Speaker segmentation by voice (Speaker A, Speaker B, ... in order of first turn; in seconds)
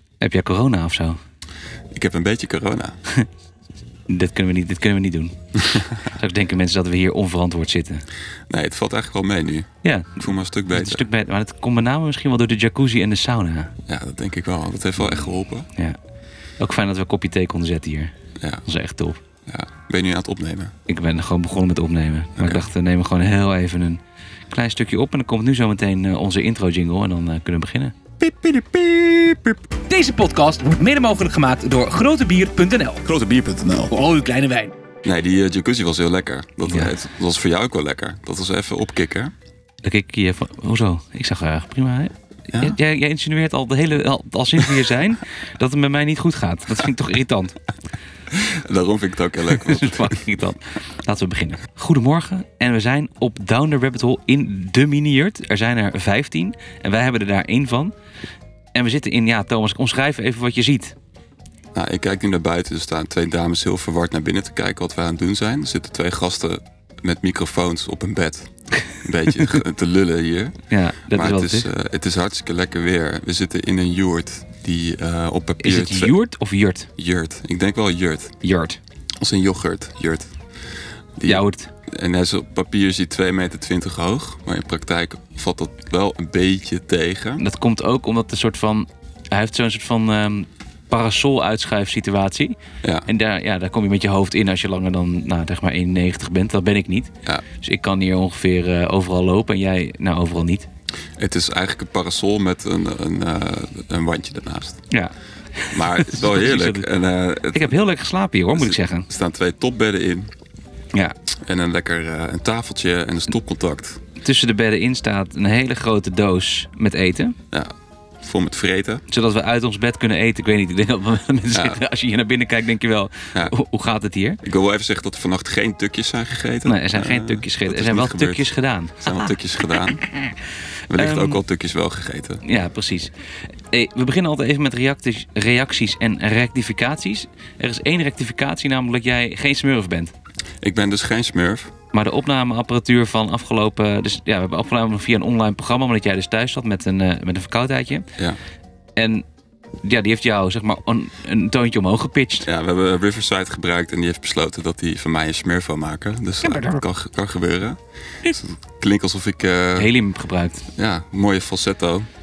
Speaker A: 0.2-1.2, 4.1-8.1, 9.8-13.7, 16.6-18.1, 18.7-19.2, 20.9-27.9, 36.7-37.0, 39.8-47.6, 49.5-57.9, 58.8-61.0, 70.7-71.7, 75.6-76.9, 78.4-78.8, 81.2-81.7, 87.4-100.7, 104.9-106.9, 107.5-109.1, 114.2-117.4, 119.1-124.4, 126.7-129.3, 129.8-130.3, 130.9-131.4, 132.4-133.1, 133.7-140.1, 141.9-148.1, 149.0-149.2, 149.8-152.5, 156.4-156.8, 159.8-160.7
Speaker B: 1.9-3.0, 8.5-11.1, 13.9-15.7, 19.5-20.7, 22.4-22.6, 28.2-29.7, 33.1-33.9, 35.0-39.3, 48.3-50.2, 61.7-70.6, 71.1-76.2, 77.0-78.4, 79.2-80.3, 81.2-87.4, 101.2-104.8, 105.7-107.8, 108.5-110.3, 111.5-114.0, 117.5-119.0, 121.5-121.8, 124.4-130.0, 130.9-132.4, 140.6-141.7, 152.4-159.9, 160.8-162.1
Speaker C: 29.9-33.1, 33.9-34.7